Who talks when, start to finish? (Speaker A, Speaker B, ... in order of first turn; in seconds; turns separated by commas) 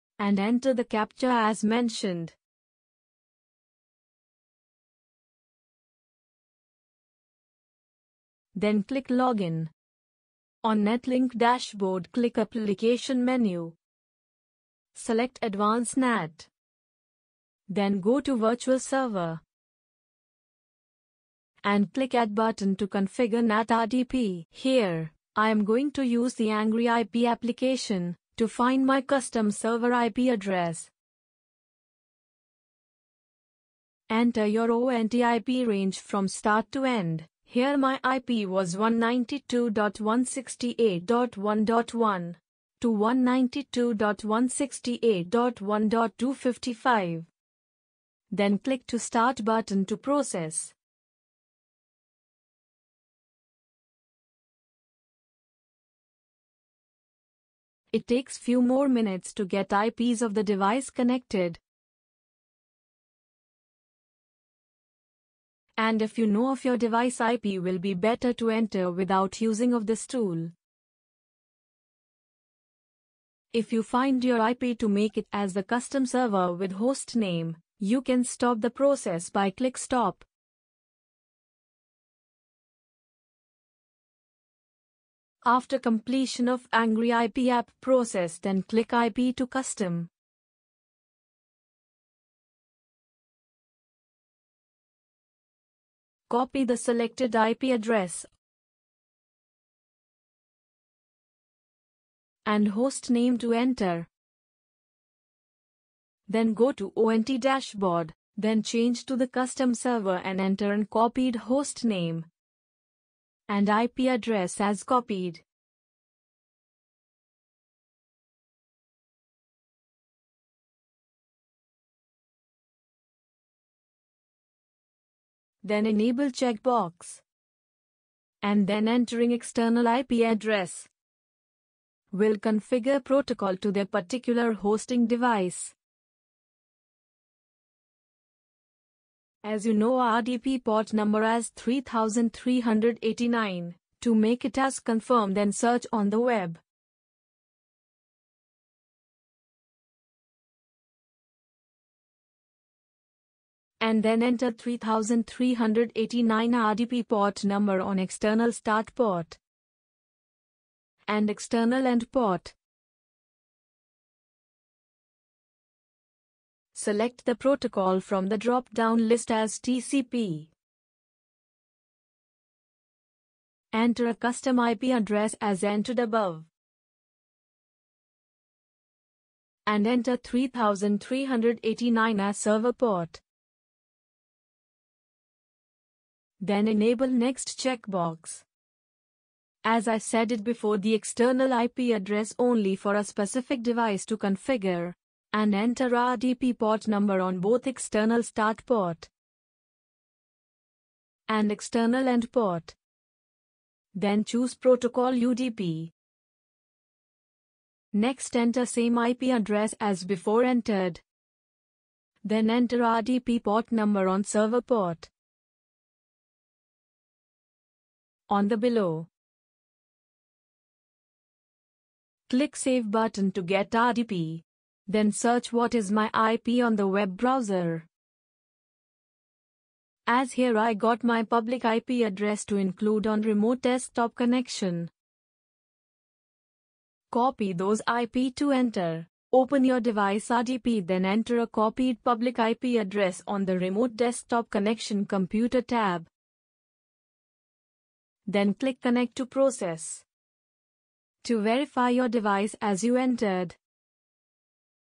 Speaker A: 0.2-2.4, Speaker A: 8.5-9.7, Speaker A: 10.6-13.8, Speaker A: 14.9-16.5, Speaker A: 17.7-19.4, Speaker A: 21.6-30.9, Speaker A: 34.1-47.3, Speaker A: 48.3-50.7, Speaker A: 57.9-61.6, Speaker A: 65.8-70.5, Speaker A: 73.5-80.2, Speaker A: 85.4-90.1, Speaker A: 96.3-98.3, Speaker A: 102.4-104.1, Speaker A: 106.3-112.3, Speaker A: 113.5-115.4, Speaker A: 125.6-127.2, Speaker A: 128.4-130.9, Speaker A: 132.1-135.7, Speaker A: 139.4-146.6, Speaker A: 153.8-159.4, Speaker A: 161.1-162.5, Speaker A: 166.7-170.5, Speaker A: 173.7-176.5, Speaker A: 179.7-183.2, Speaker A: 186.4-188.4, Speaker A: 189.6-199.1, Speaker A: 201.3-202.8, Speaker A: 203.9-205.9, Speaker A: 207.9-211.0, Speaker A: 212.2-215.1, Speaker A: 218.3-219.1, Speaker A: 222.3-227.9, Speaker A: 230.1-234.9, Speaker A: 237.1-246.1, Speaker A: 248.2-250.0, Speaker A: 251.2-253.6